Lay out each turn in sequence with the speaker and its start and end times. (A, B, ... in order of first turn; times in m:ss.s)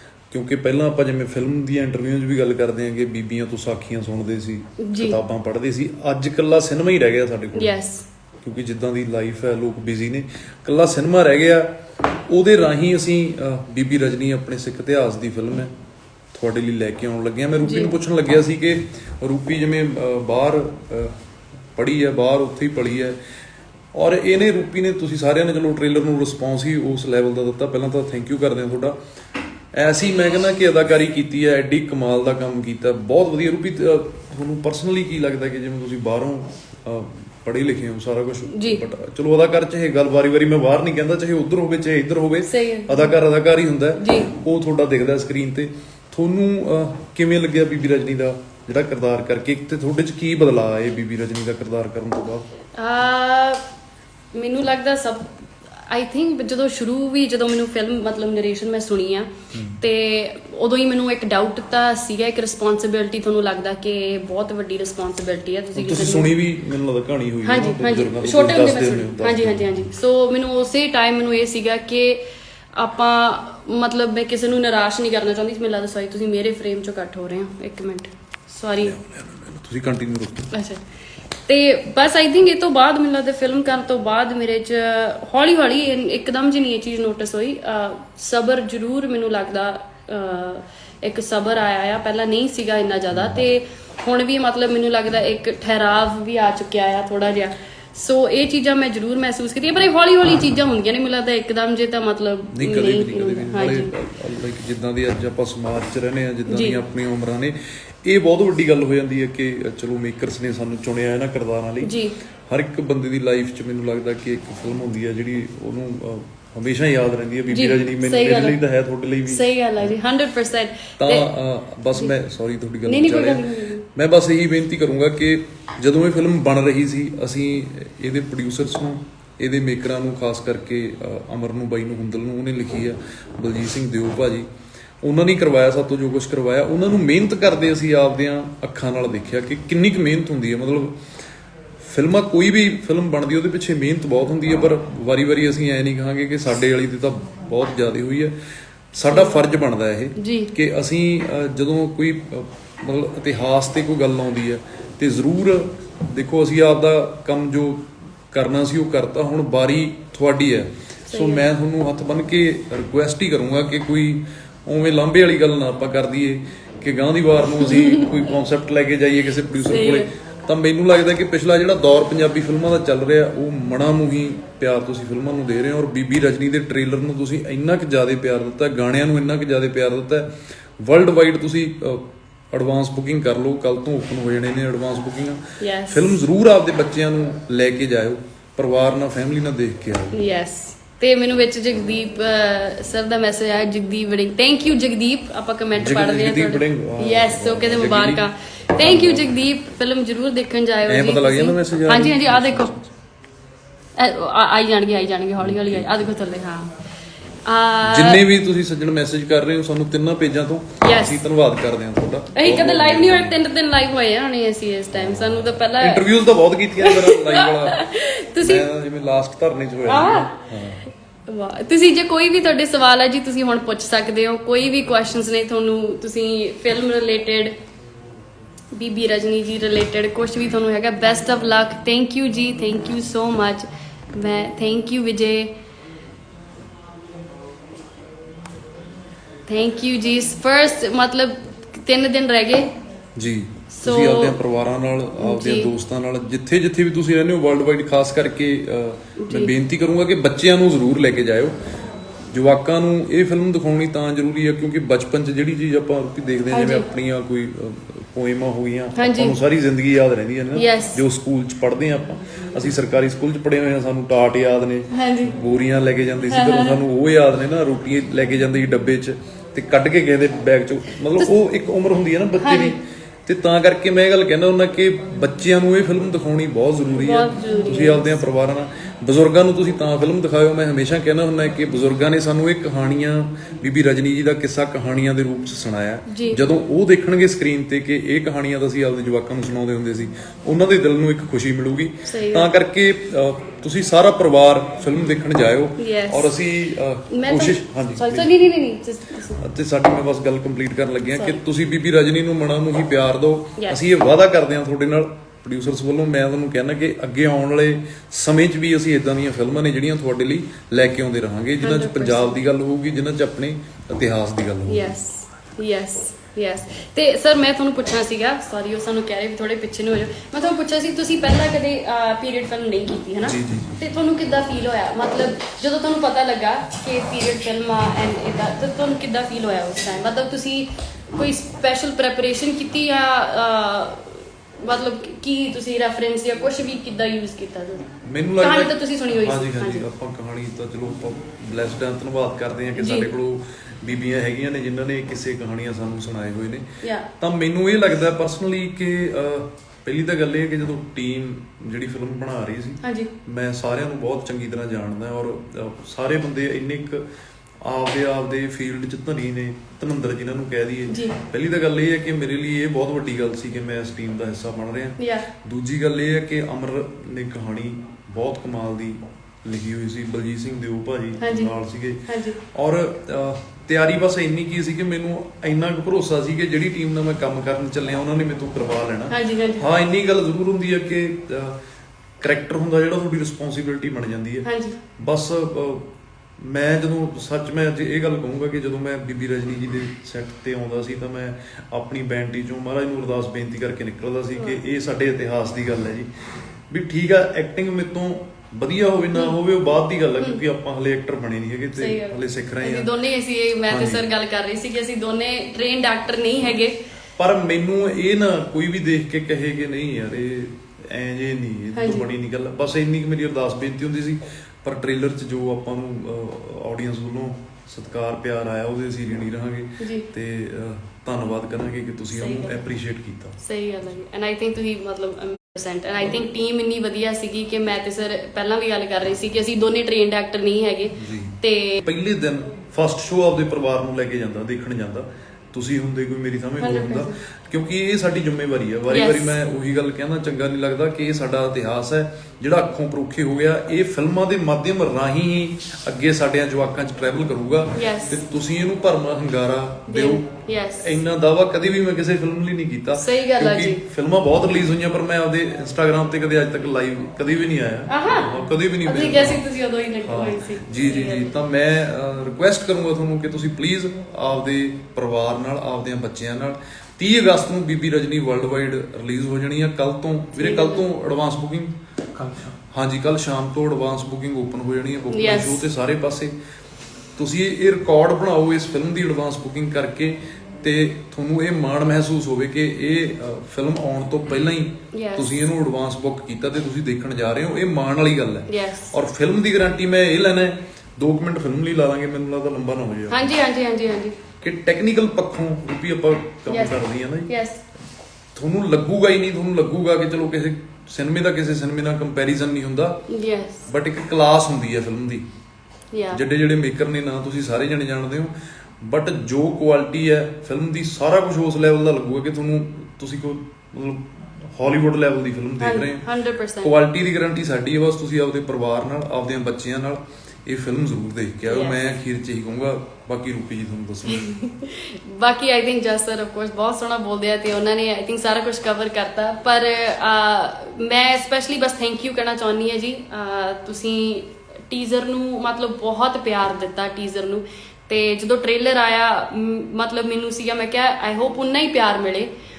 0:00.3-0:07.8 A
0:04.8-0:05.2 B
0:07.5-0:08.1 B
0:08.4-0:11.7 A
0:12.3-0:15.7 A
0:16.3-0:21.2 A
0:17.6-0:18.0 B
0:21.8-0:23.2 A
0:23.9-0:29.0 A
0:29.8-0:52.5 A
0:38.5-0:38.8 B
0:42.4-0:43.1 B
0:44.0-0:44.3 B
0:52.8-0:53.6 B
0:54.3-0:55.4 B
0:55.9-1:06.4 B
0:59.5-0:59.8 A
1:05.8-1:09.9 A
1:07.4-1:19.0 B
1:18.8-1:20.5 A
1:20.5-1:20.8 B
1:21.5-1:43.9 B
1:42.5-1:52.0 A
1:46.5-1:46.8 B
1:51.8-1:52.2 B
1:52.5-1:59.9 A
1:57.5-1:58.6 B
1:59.3-2:01.3 B
2:01.0-2:14.5 A
2:02.8-2:03.8 B
2:15.0-2:21.0 A
2:21.8-2:28.3 A
2:28.9-3:10.2 A
2:29.0-2:29.4 B
2:30.2-2:30.5 B
2:41.1-2:41.5 B
2:47.6-2:48.3 B
2:49.6-2:50.1 B
3:05.6-3:06.2 B
3:10.1-3:22.7 B
3:15.8-3:18.2 A
3:18.8-3:19.3 A
3:20.9-3:22.9 A
3:24.0-3:26.7 B
3:25.4-3:26.1 A
3:27.4-3:28.2 B
3:27.9-3:33.4 A
3:30.8-3:31.2 B
3:32.3-3:36.2 B
3:35.0-3:37.8 A
3:36.8-3:38.7 B
3:38.4-3:40.9 A
3:39.9-3:40.4 B
3:41.3-3:47.6 B
3:48.7-3:55.5 B
3:59.5-4:02.7 B
4:03.2-4:11.6 A
4:03.7-4:04.4 B
4:05.2-4:05.7 B
4:09.2-4:09.5 B
4:12.3-4:58.3 A
4:16.5-4:16.9 B
4:19.0-4:19.4 B
4:20.6-4:21.0 B
4:24.9-4:25.3 B
4:26.2-4:26.8 B
4:32.4-4:32.8 B
4:37.0-4:38.2 B
4:46.1-4:46.4 B
4:52.0-4:52.5 B
4:55.8-4:56.4 B
4:57.1-4:59.4 B
4:59.4-5:15.0 A
5:01.2-5:01.4 B
5:11.6-5:12.4 B
5:14.7-5:37.9 B
5:23.2-5:23.8 A
5:38.0-5:57.0 A
5:38.4-5:39.9 B
5:42.8-5:43.1 B
5:46.8-5:47.1 B
5:52.8-5:53.1 B
5:57.6-6:21.6 A
6:00.9-6:01.2 B
6:05.0-6:05.3 B
6:11.2-6:11.6 B
6:12.1-6:12.4 B
6:19.1-6:19.7 B
6:22.2-6:36.1 A
6:24.4-6:24.8 B
6:34.4-6:34.6 B
6:36.7-6:42.9 A
6:41.8-6:46.8 B
6:43.7-6:44.0 A
6:47.2-7:03.4 A
6:51.8-6:52.1 B
6:59.8-7:00.1 B
7:02.1-7:02.6 B
7:03.4-7:11.8 B
7:11.0-7:30.3 A
7:16.6-7:17.2 B
7:18.9-7:19.4 B
7:27.7-7:28.2 B
7:29.9-7:31.0 B
7:30.8-7:39.4 A
7:33.0-7:33.8 B
7:37.9-7:41.3 B
7:40.0-7:56.4 A
7:50.4-7:50.9 B
7:55.1-7:55.6 B
7:57.2-8:13.2 A
8:04.9-8:05.5 B
8:08.5-8:08.9 B
8:13.1-8:14.2 B
8:14.4-8:17.3 A
8:16.5-8:17.6 B
8:18.4-8:23.0 A
8:23.1-8:23.7 B
8:23.7-8:25.2 A
8:25.9-8:26.2 B
8:26.1-8:36.1 A
8:35.6-8:36.7 B
8:36.6-8:44.4 A
8:41.5-8:41.9 B
8:44.0-9:02.3 B